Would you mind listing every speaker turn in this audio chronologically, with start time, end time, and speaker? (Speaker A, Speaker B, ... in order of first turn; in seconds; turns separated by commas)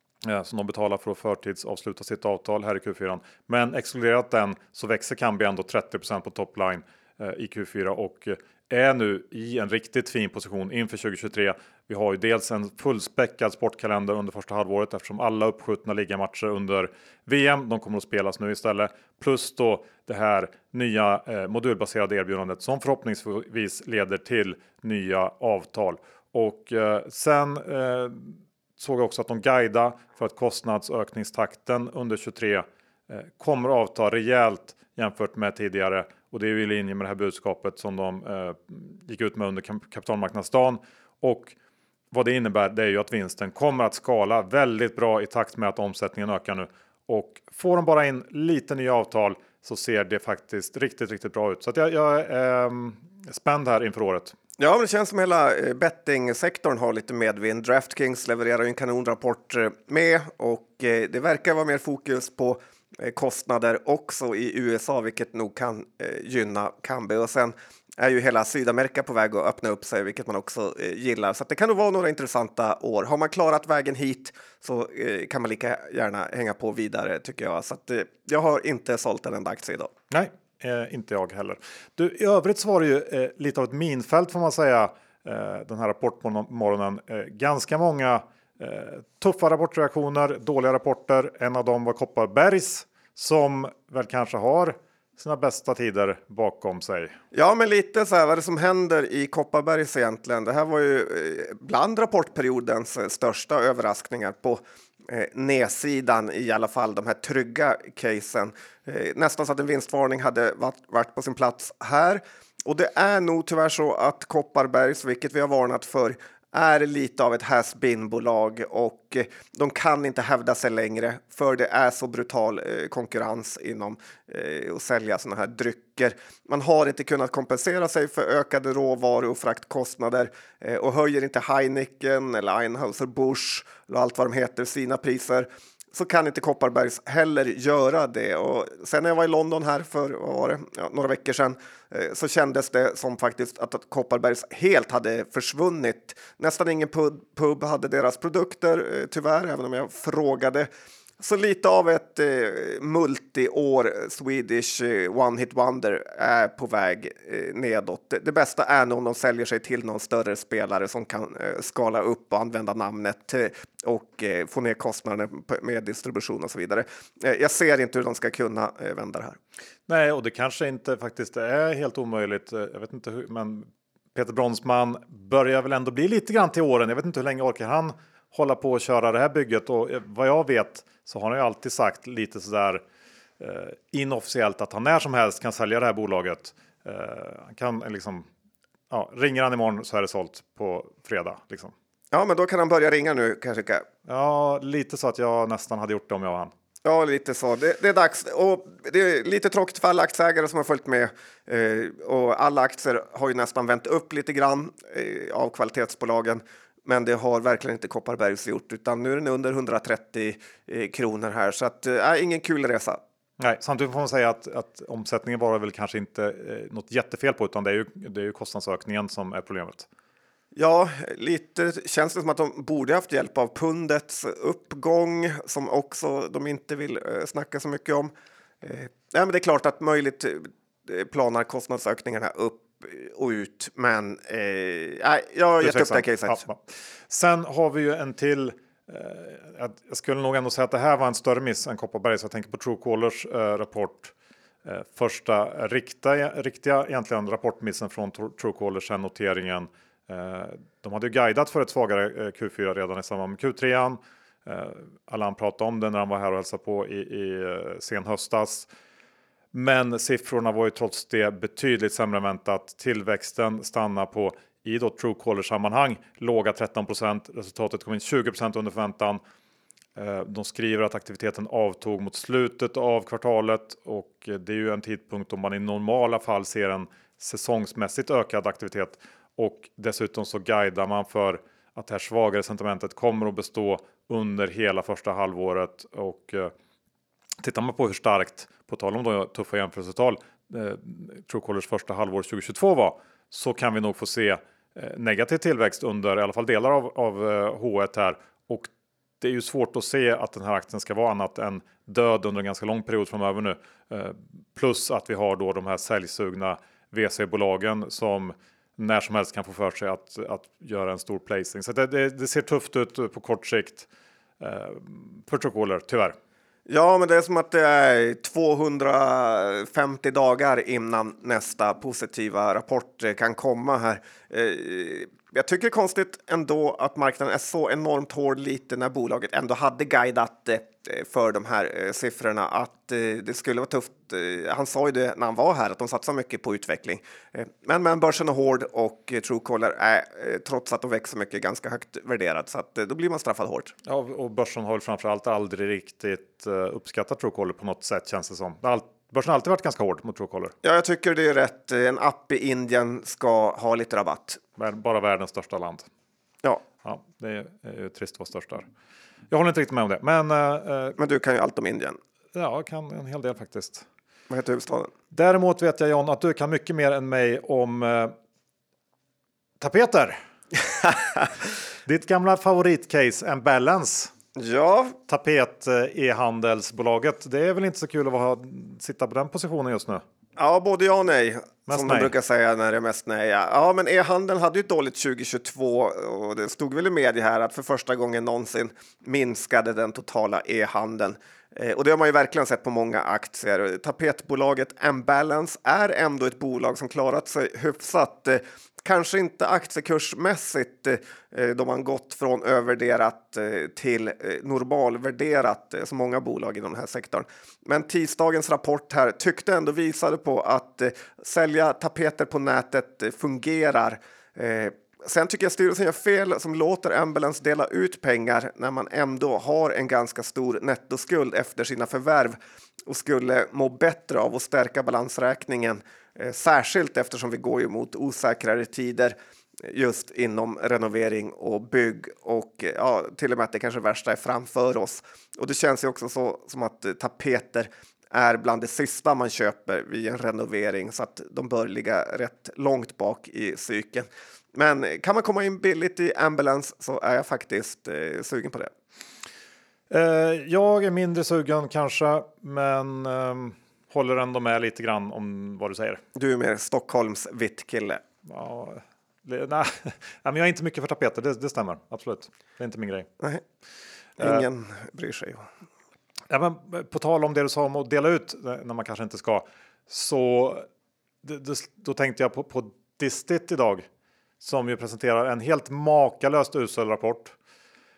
Speaker A: 0.2-41.5, Speaker A: 42.1-54.3, Speaker B: 54.6-79.9, Speaker A: 80.1-97.2, Speaker B: 97.3-150.7, Speaker B: 151.2-169.4, Speaker A: 169.9-182.8, Speaker A: 183.4-188.3, Speaker A: 188.9-191.7, Speaker B: 192.1-193.8, Speaker A: 194.1-196.5, Speaker B: 196.8-213.0, Speaker A: 213.4-219.9, Speaker B: 220.5-236.4, Speaker A: 235.6-244.1, Speaker A: 244.6-258.7, Speaker A: 259.5-269.2, Speaker A: 269.9-286.5, Speaker A: 287.4-313.9, Speaker A: 314.4-316.1, Speaker B: 316.7-343.7, Speaker A: 343.9-350.5, Speaker B: 350.6-354.4, Speaker A: 354.6-355.9, Speaker A: 356.8-358.7, Speaker A: 359.3-361.0, Speaker B: 361.0-362.0, Speaker A: 362.3-363.9, Speaker B: 364.3-364.9, Speaker A: 365.1-368.1, Speaker A: 369.6-370.2, Speaker A: 371.9-374.1, Speaker B: 374.3-375.0, Speaker A: 375.1-380.0, Speaker B: 380.4-448.7, Speaker A: 381.7-382.1, Speaker A: 449.9-456.0, Speaker B: 456.1-458.0, Speaker A: 458.2-463.1, Speaker B: 464.2-465.5, Speaker A: 466.3-470.6, Speaker A: 471.2-473.9, Speaker A: 474.4-477.4